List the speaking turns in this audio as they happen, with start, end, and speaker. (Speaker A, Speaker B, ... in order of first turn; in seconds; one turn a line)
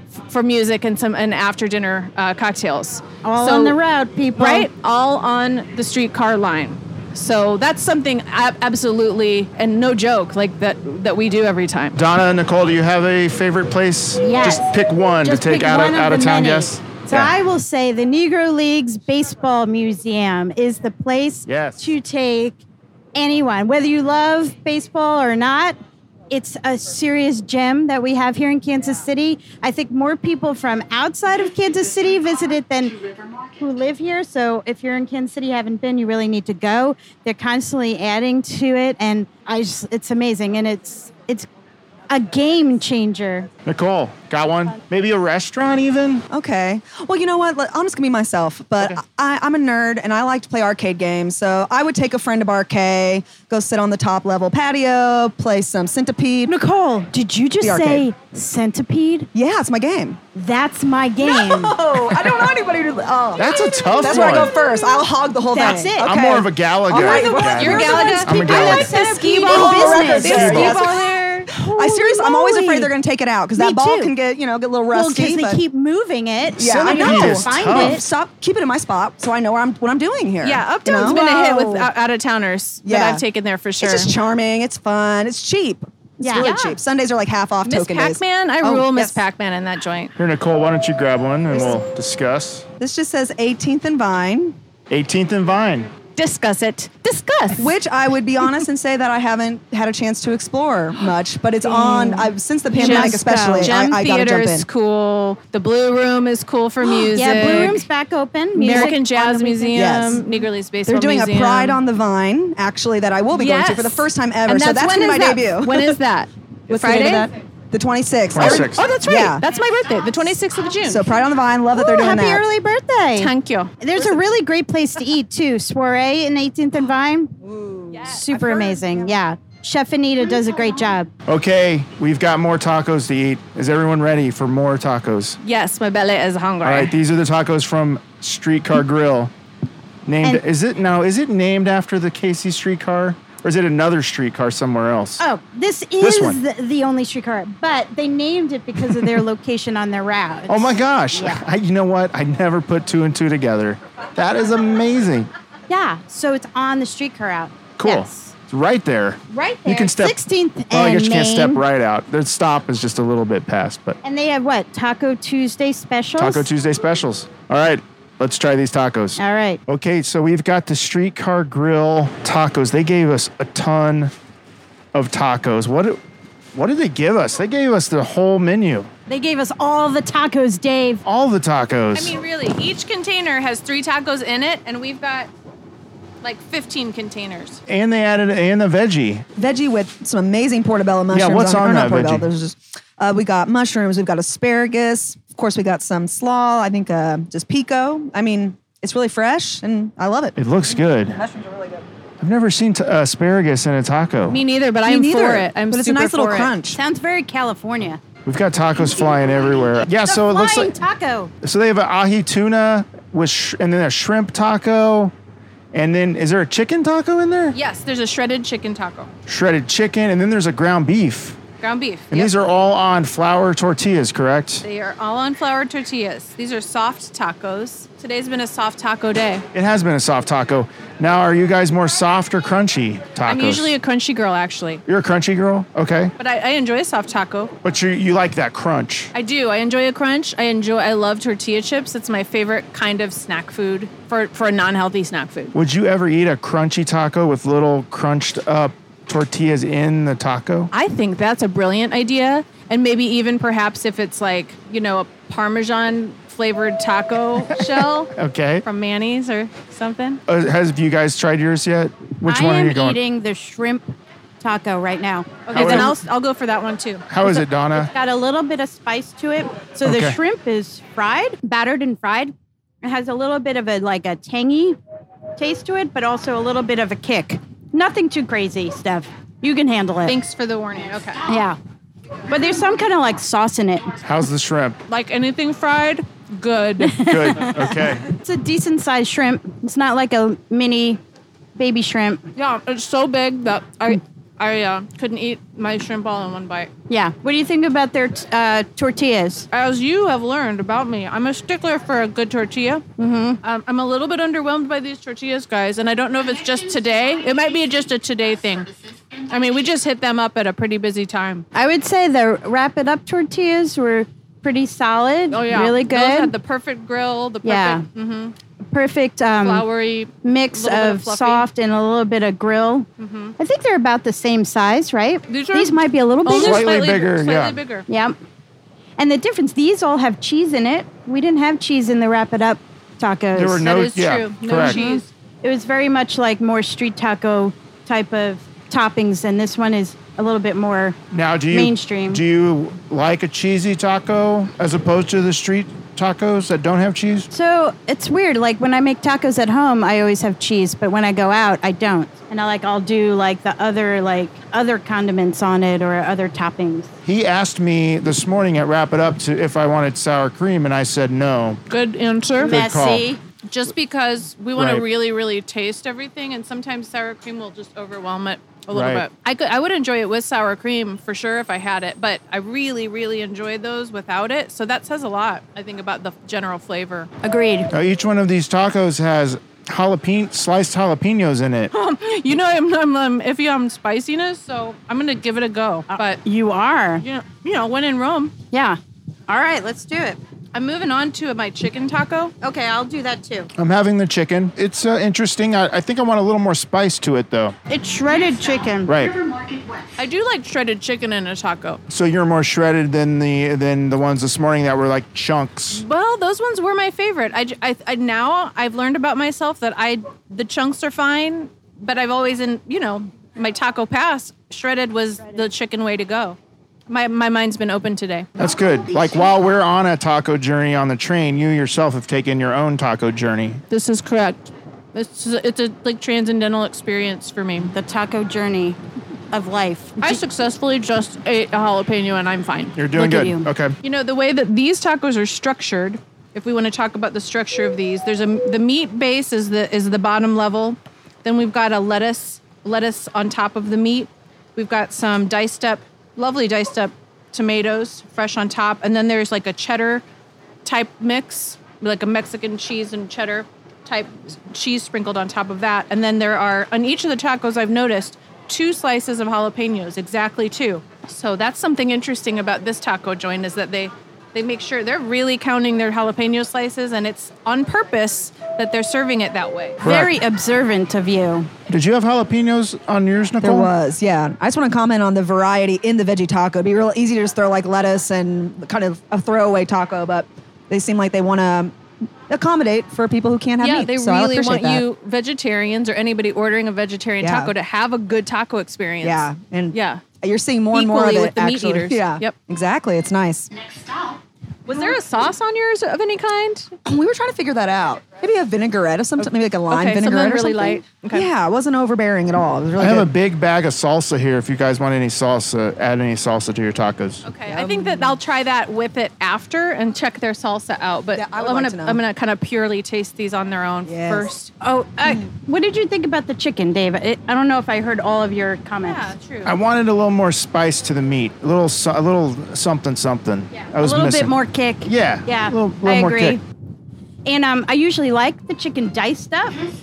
Speaker A: 0.3-3.8
Speaker B: 3.2-4.7
Speaker A: 4.4-12.0
Speaker C: 11.9-17.3
Speaker B: 14.2-22.6
Speaker C: 21.5-21.9
Speaker B: 23.1-25.8
Speaker B: 26.3-33.0
Speaker B: 33.5-41.5
Speaker B: 42.1-43.5
Speaker C: 43.6-46.2
Speaker D: 46.3-56.5
Speaker B: 56.5-59.3
Speaker D: 57.6-58.0
Speaker D: 59.3-60.2
Speaker B: 60.3-61.8
Speaker D: 61.2-68.3
Speaker C: 63.4-64.5
Speaker B: 63.4-66.1
Speaker C: 66.0-68.9
Speaker A: 67.0-71.5
Speaker B: 67.6-70.8
Speaker D: 68.9-71.0
Speaker C: 70.2-70.8
Speaker B: 71.5-72.9
Speaker D: 71.7-75.6
Speaker B: 73.5-74.1
Speaker B: 74.9-78.0
Speaker D: 76.6-81.9
Speaker C: 76.8-78.0
Speaker A: 80.4-84.1
Speaker B: 81.0-81.3
Speaker D: 82.8-83.2
Speaker D: 83.8-89.2
Speaker B: 86.2-86.5
Speaker A: 86.4-86.8
Speaker A: 87.6-90.1
Speaker C: 90.2-92.7
Speaker D: 92.8-94.5
Speaker C: 94.9-95.9
Speaker A: 96.2-97.7
Speaker D: 97.6-104.7
Speaker B: 101.6-103.7
Speaker A: 102.7-107.8
Speaker B: 107.1-110.2
Speaker A: 108.6-111.8
Speaker D: 109.7-110.2
Speaker D: 110.8-116.0
Speaker A: 113.3-117.3
Speaker D: 116.7-119.4
Speaker C: 118.3-118.8
Speaker A: 118.4-121.1
Speaker D: 120.8-122.4
Speaker B: 121.7-127.3
Speaker A: 123.2-123.7
Speaker D: 127.4-129.1
Speaker A: 127.9-128.2
Speaker B: 128.1-131.1
Speaker C: 131.3-135.4
Speaker A: 135.4-136.9
Speaker C: 136.6-139.3
Speaker C: 140.1-145.2
Speaker B: 145.2-151.4
Speaker C: 146.0-146.4
Speaker C: 150.5-155.3
Speaker B: 155.7-158.3
Speaker C: 157.8-160.2
Speaker B: 159.3-161.6
Speaker C: 160.7-164.0
Speaker B: 164.0-166.5
Speaker C: 166.2-174.1
Speaker B: 169.2-169.6
Speaker C: 174.9-176.0
Speaker C: 176.5-178.9
Speaker B: 179.1-181.0
Speaker C: 181.0-182.2
Speaker A: 181.9-185.3
Speaker A: 186.2-187.6
Speaker C: 187.7-189.2
Speaker D: 189.3-200.4
Speaker C: 191.1-192.3
Speaker C: 200.4-201.2
Speaker D: 201.1-201.8
Speaker C: 202.2-204.4
Speaker A: 204.3-206.5
Speaker D: 204.8-206.8
Speaker B: 206.7-208.0
Speaker C: 208.2-210.7
Speaker B: 210.0-211.3
Speaker C: 211.4-215.1
Speaker C: 215.7-217.6
Speaker A: 217.5-219.1
Speaker C: 219.3-221.4
Speaker A: 221.6-222.3
Speaker C: 222.1-224.6
Speaker A: 224.6-229.4
Speaker C: 229.5-233.7
Speaker A: 233.2-234.8
Speaker C: 234.9-236.1
Speaker A: 236.2-237.5
Speaker C: 237.6-239.1
Speaker A: 239.1-245.5
Speaker C: 245.5-250.7
Speaker A: 250.7-258.1
Speaker C: 258.1-258.6
Speaker A: 258.6-260.2
Speaker C: 260.3-263.0
Speaker B: 262.2-263.9
Speaker B: 264.4-265.9
Speaker A: 265.5-267.2
Speaker C: 265.5-265.9
Speaker C: 267.1-267.9
Speaker B: 267.8-274.8
Speaker C: 269.8-270.2
Speaker B: 275.4-280.1
Speaker A: 280.1-281.2
Speaker B: 281.2-281.6
Speaker B: 282.3-283.9
Speaker C: 284.0-284.8
Speaker A: 284.9-287.1
Speaker B: 286.8-291.0
Speaker C: 287.0-288.0
Speaker B: 291.6-292.2
Speaker A: 292.4-296.7
Speaker B: 296.9-299.5
Speaker A: 299.5-302.8
Speaker B: 303.0-303.4
Speaker A: 303.4-308.7
Speaker A: 309.3-311.4
Speaker B: 311.5-316.3
Speaker A: 315.3-318.3
Speaker B: 317.4-317.8
Speaker B: 318.7-319.6
Speaker A: 319.4-321.4
Speaker B: 320.2-322.9
Speaker A: 323.0-323.4
Speaker B: 323.4-326.6
Speaker A: 325.3-327.9
Speaker C: 326.3-327.6
Speaker B: 327.9-328.1
Speaker B: 329.0-333.7
Speaker C: 333.3-334.8
Speaker A: 333.6-335.1
Speaker B: 334.6-341.0
Speaker C: 341.1-347.3
Speaker B: 341.5-342.2
Speaker B: 347.3-356.9
Speaker C: 357.0-361.6
Speaker A: 361.7-362.5
Speaker C: 362.4-363.1
Speaker B: 362.4-363.2
Speaker A: 363.5-377.1
Speaker C: 364.6-364.8
Speaker C: 368.7-369.0
Speaker B: 377.2-377.7
Speaker C: 377.7-381.7
Speaker A: 381.7-386.2
Speaker B: 385.9-387.0
Speaker A: 387.0-388.3
Speaker B: 388.5-388.8
Speaker B: 389.3-390.2
Speaker A: 390.5-392.3
Speaker B: 392.4-393.5
Speaker C: 393.6-397.5
Speaker B: 397.7-398.9
Speaker C: 398.9-399.2
Speaker A: 400.0-401.8
Speaker C: 401.9-405.8
Speaker A: 405.7-416.4
Speaker A: 416.9-418.3
Speaker C: 418.4-423.6
Speaker A: 423.7-427.7
Speaker B: 427.7-428.8
Speaker B: 429.3-430.2
Speaker A: 430.0-432.8
Speaker C: 432.8-433.8
Speaker B: 432.9-433.5
Speaker A: 433.8-450.0
Speaker A: 450.6-469.8
Speaker C: 469.8-470.1
Speaker B: 469.8-471.5
Speaker C: 471.7-473.7
Speaker D: 473.4-481.7
Speaker D: 482.3-484.8
Speaker A: 483.6-490.0
Speaker D: 487.2-487.5
Speaker D: 489.0-493.5
Speaker A: 490.7-492.3
Speaker A: 494.6-496.7
Speaker D: 496.8-503.1
Speaker A: 499.2-501.3
Speaker C: 502.8-507.2
Speaker A: 507.2-514.5
Speaker D: 507.5-508.2
Speaker D: 511.1-512.0
Speaker D: 513.9-514.3
Speaker B: 514.6-519.1
Speaker A: 518.8-519.5
Speaker C: 519.4-524.3
Speaker B: 523.8-526.4
Speaker C: 524.8-526.4
Speaker B: 527.2-529.6